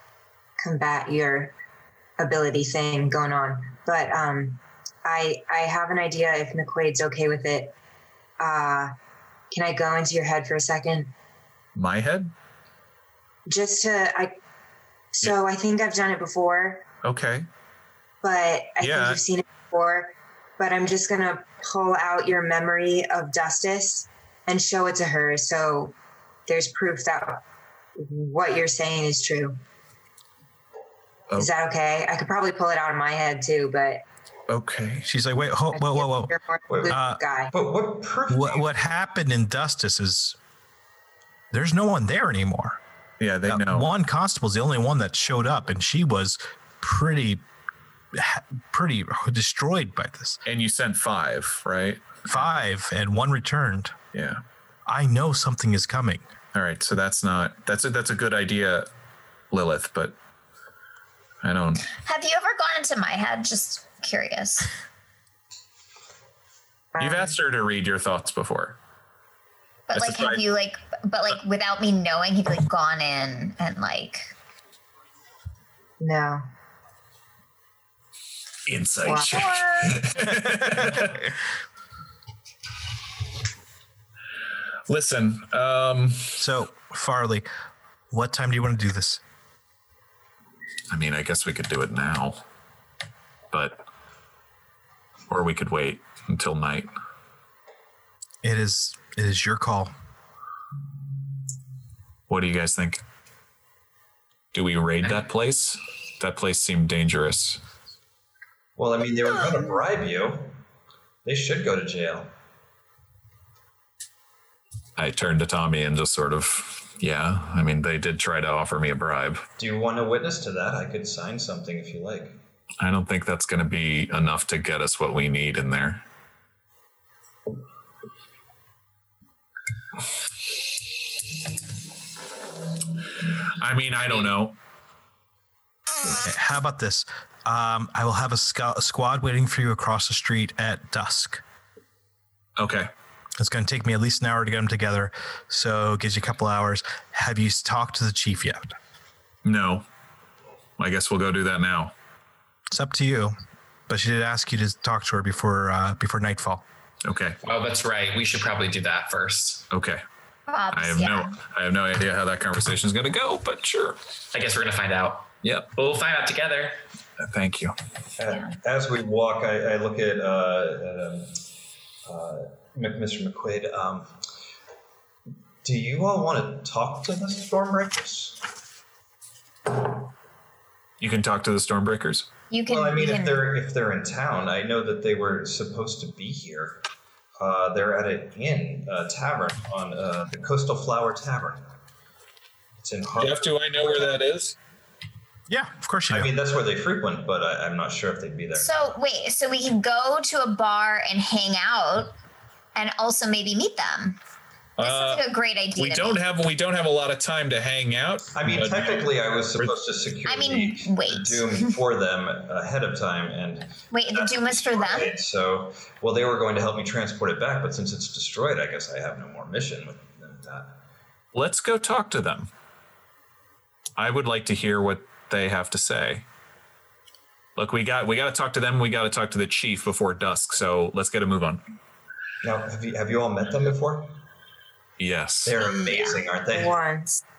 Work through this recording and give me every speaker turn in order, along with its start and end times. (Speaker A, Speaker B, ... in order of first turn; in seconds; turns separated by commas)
Speaker A: 0.6-1.5, Speaker A: 2.2-7.7, Speaker A: 8.4-8.9, Speaker A: 9.5-11.1, Speaker B: 11.7-12.3, Speaker A: 13.4-14.3, Speaker A: 15.1-16.8, Speaker B: 17.0-17.5, Speaker A: 18.2-25.9, Speaker B: 18.8-19.2, Speaker A: 26.5-27.4, Speaker A: 27.9-29.6, Speaker A: 31.3-34.0, Speaker B: 34.5-35.1, Speaker C: 35.0-36.3, Speaker A: 35.7-37.5, Speaker D: 36.7-37.0, Speaker C: 36.9-37.2, Speaker D: 37.5-38.7, Speaker C: 38.3-40.4, Speaker C: 41.5-42.8, Speaker B: 43.2-43.9, Speaker C: 43.5-47.4, Speaker C: 48.1-50.4, Speaker B: 50.4-52.4, Speaker C: 52.3-53.9, Speaker B: 54.1-54.4, Speaker C: 54.9-56.2, Speaker B: 56.5-58.9, Speaker B: 59.5-60.1, Speaker B: 61.4-61.9, Speaker E: 61.9-64.7, Speaker A: 66.9-67.3, Speaker B: 67.0-68.8, Speaker E: 69.9-74.3, Speaker B: 69.9-70.4, Speaker A: 76.0-76.4, Speaker B: 78.7-81.2, Speaker A: 79.0-79.6, Speaker E: 79.3-80.0, Speaker C: 80.7-81.1, Speaker B: 84.9-86.4, Speaker C: 86.4-87.5, Speaker C: 88.1-89.2, Speaker B: 90.9-92.4, Speaker B: 93.5-93.8, Speaker B: 95.3-96.9, Speaker C: 98.4-99.9, Speaker B: 102.3-103.0, Speaker B: 104.5-107.6, Speaker D: 108.8-110.6, Speaker D: 111.2-112.3, Speaker B: 115.0-119.5, Speaker D: 119.6-122.4, Speaker B: 122.8-126.0, Speaker B: 133.6-134.6, Speaker C: 136.0-141.4, Speaker B: 142.6-142.9, Speaker C: 143.4-148.7, Speaker B: 149.4-149.8, Speaker B: 150.8-151.9, Speaker C: 152.7-153.3, Speaker C: 153.9-156.6, Speaker B: 157.0-157.4, Speaker F: 157.4-159.7, Speaker B: 159.7-160.0, Speaker E: 160.5-161.3, Speaker B: 160.7-164.0, Speaker F: 164.3-166.8, Speaker B: 165.4-165.7, Speaker B: 167.2-167.8, Speaker D: 168.2-171.4, Speaker D: 172.1-174.1, Speaker D: 175.6-178.4, Speaker B: 181.0-182.3, Speaker E: 182.5-183.4, Speaker D: 182.7-186.8, Speaker D: 187.4-191.6, Speaker D: 192.8-194.2, Speaker B: 193.2-194.6, Speaker C: 195.5-196.3, Speaker D: 196.1-198.7, Speaker E: 198.6-202.1, Speaker E: 202.7-204.2, Speaker B: 204.8-205.2, Speaker E: 204.8-206.2, Speaker B: 205.8-209.7, Speaker D: 208.3-220.8, Speaker E: 210.2-211.7, Speaker E: 213.9-215.1, Speaker B: 221.3-222.5, Speaker B: 224.0-226.2, Speaker B: 227.6-231.6, Speaker D: 232.4-234.1, Speaker B: 235.0-235.6, Speaker D: 235.4-236.8, Speaker E: 235.6-236.2, Speaker A: 235.8-237.2